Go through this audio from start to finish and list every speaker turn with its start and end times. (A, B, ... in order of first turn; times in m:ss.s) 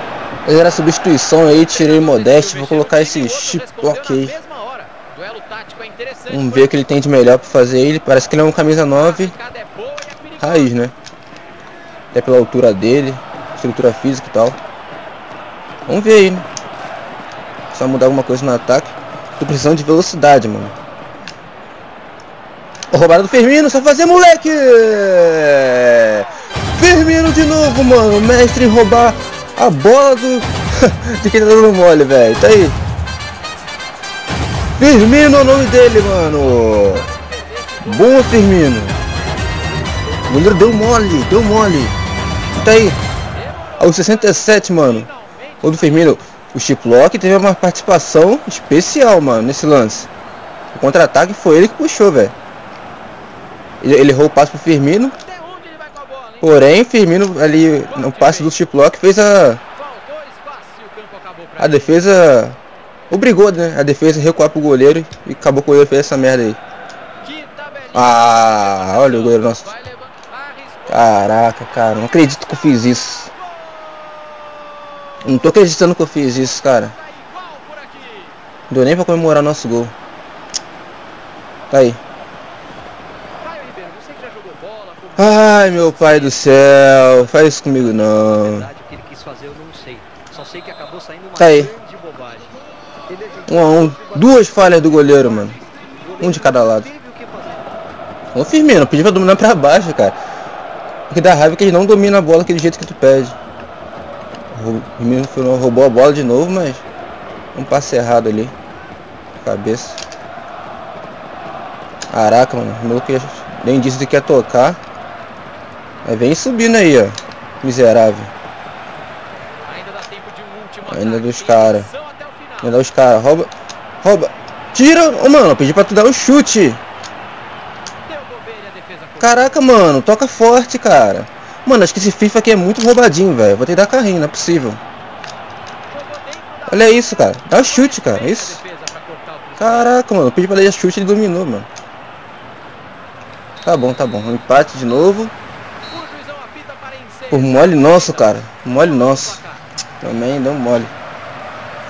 0:00.4-0:04.4 A
0:01.6-0:06.8 B
0:06.3-0:09.3 A
0:08.9-0:10.7 B
0:10.4-0:10.9 A
0:12.1-0:14.6 A
0:15.9-0:16.4 A
0:17.7-0:20.8 A
0:22.9-0:32.8 A
0:34.8-0:37.1 A
0:35.6-0:39.9 B
0:37.8-0:39.0 A
0:38.8-0:40.2 C
0:40.3-0:42.0 A
0:42.5-0:43.0 A
0:43.3-0:46.2 B
0:43.8-0:45.1 A
0:45.6-0:50.1 A
0:50.7-0:52.3 A
0:53.8-0:55.2 A
0:55.2-0:56.6 B
0:56.4-0:59.6 A
0:57.8-0:58.6 B
0:59.7-1:02.0 B
1:01.6-1:02.6 A
1:03.1-1:06.6 A
1:07.2-1:11.2 B
1:07.9-1:09.7 A
1:10.9-1:13.3 A
1:12.3-1:12.8 B
1:15.2-1:16.9 A
1:16.7-1:18.4 B
1:18.7-1:19.9 A
1:21.7-1:22.0 A
1:23.4-1:26.6 B
1:24.0-1:24.5 C
1:25.2-1:28.7 A
1:28.1-1:37.8 C
1:31.4-1:31.7 A
1:33.5-1:35.6 A
1:36.2-1:36.9 A
1:38.3-1:40.2 A
1:41.1-1:43.3 A
1:44.5-1:46.8 A
1:47.5-1:48.5 A
1:49.4-1:50.0 A
1:52.1-1:54.8 A
1:56.0-1:58.3 A
1:59.6-2:02.7 B
2:00.9-2:01.9 A
2:02.6-2:03.5 A
2:04.0-2:06.8 A
2:08.0-2:09.6 B
2:09.2-2:14.8 A
2:15.9-2:19.9 B
2:16.7-2:18.6 A
2:19.6-2:21.7 A
2:23.6-2:25.3 A
2:25.9-2:29.6 B
2:27.3-2:29.4 A
2:30.0-2:30.9 A